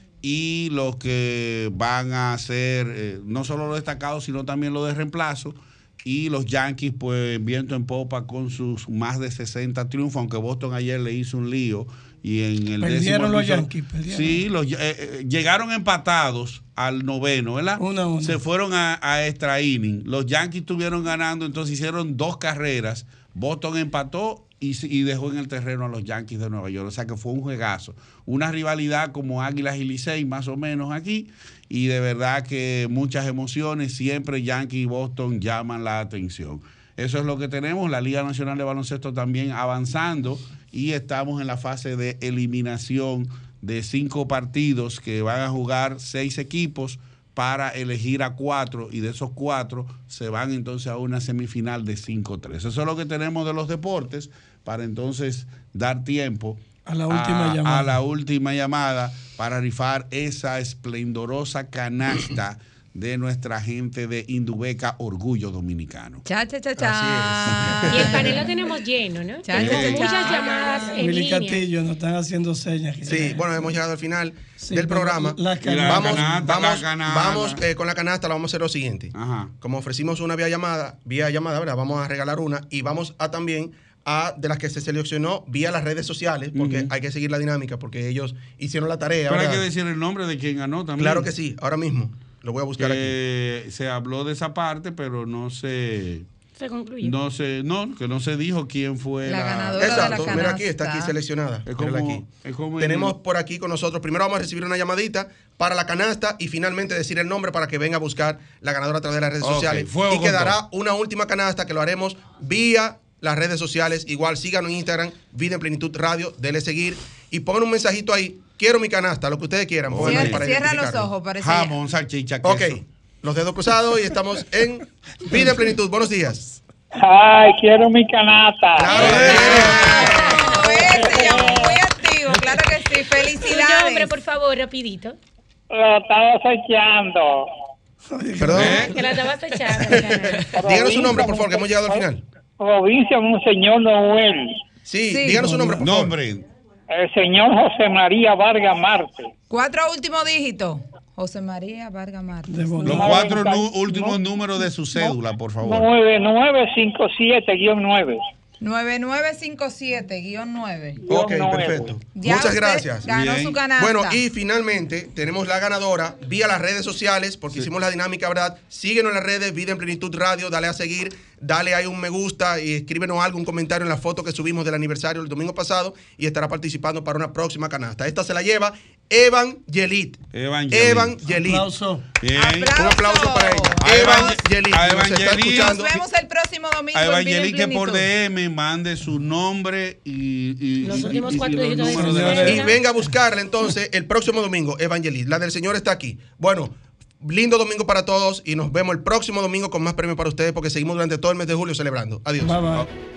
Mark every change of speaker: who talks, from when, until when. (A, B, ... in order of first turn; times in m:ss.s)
0:00.2-1:06.2 A
0:12.8-0:14.5 B
0:17.8-0:18.4 B
0:56.9-0:58.0 B
1:06.2-1:08.5 C
1:06.8-1:08.4 D
1:07.9-1:11.6 E
1:09.4-1:11.0 C
1:09.5-1:10.1 A
1:10.9-1:13.7 B
1:13.1-1:29.6 D
1:14.6-1:16.5 B
1:15.6-1:17.6 A
1:19.2-1:19.5 A
1:26.6-1:26.9 A
1:29.3-1:31.3 A
1:31.0-1:33.2 D
1:32.8-1:36.3 A
1:36.6-1:37.2 E
1:37.0-1:40.6 A
1:39.2-1:41.1 C
1:39.8-1:42.3 D
1:41.7-1:43.2 A
1:42.8-2:01.1 D
1:49.4-1:50.6 A
1:59.9-2:00.4 A
2:00.0-2:01.8 C
2:01.4-2:02.8 A
2:02.4-2:06.6 D
2:07.0-2:09.6 F
2:08.8-2:10.4 D
2:08.9-2:10.2 A
2:09.5-2:14.1 C
2:10.0-2:10.5 E
2:10.6-2:11.8 F
2:13.4-2:15.2 E
2:15.7-2:17.5 F
2:18.1-2:19.2 B
2:18.4-2:18.9 D
2:18.5-2:18.9 A
2:18.8-2:20.5 E
2:19.7-2:22.2 D
2:20.5-2:22.1 F
2:22.6-2:24.6 F
2:24.9-2:26.2 D
2:25.1-2:25.5 C
2:25.3-2:25.9 B
2:25.8-2:26.4 A
2:26.9-2:29.3 F
2:29.5-2:33.1 C
2:32.5-2:33.5 B
2:32.8-2:35.9 A
2:33.0-2:34.2 F
2:34.8-2:38.2 F
2:38.6-2:41.0 C
2:41.0-2:41.9 F
2:41.1-2:43.1 D
2:42.2-2:44.2 C
2:43.1-2:43.6 A
2:43.8-3:01.7 D
3:00.3-3:01.2 A
3:01.3-3:02.1 B
3:02.2-3:02.8 A
3:02.4-3:04.4 C
3:02.7-3:05.9 D
3:03.8-3:06.0 A
3:05.4-3:08.1 C
3:06.9-3:12.6 A
3:10.8-3:12.8 E
3:10.9-3:12.7 B
3:12.4-3:22.7 D
3:22.4-3:22.9 B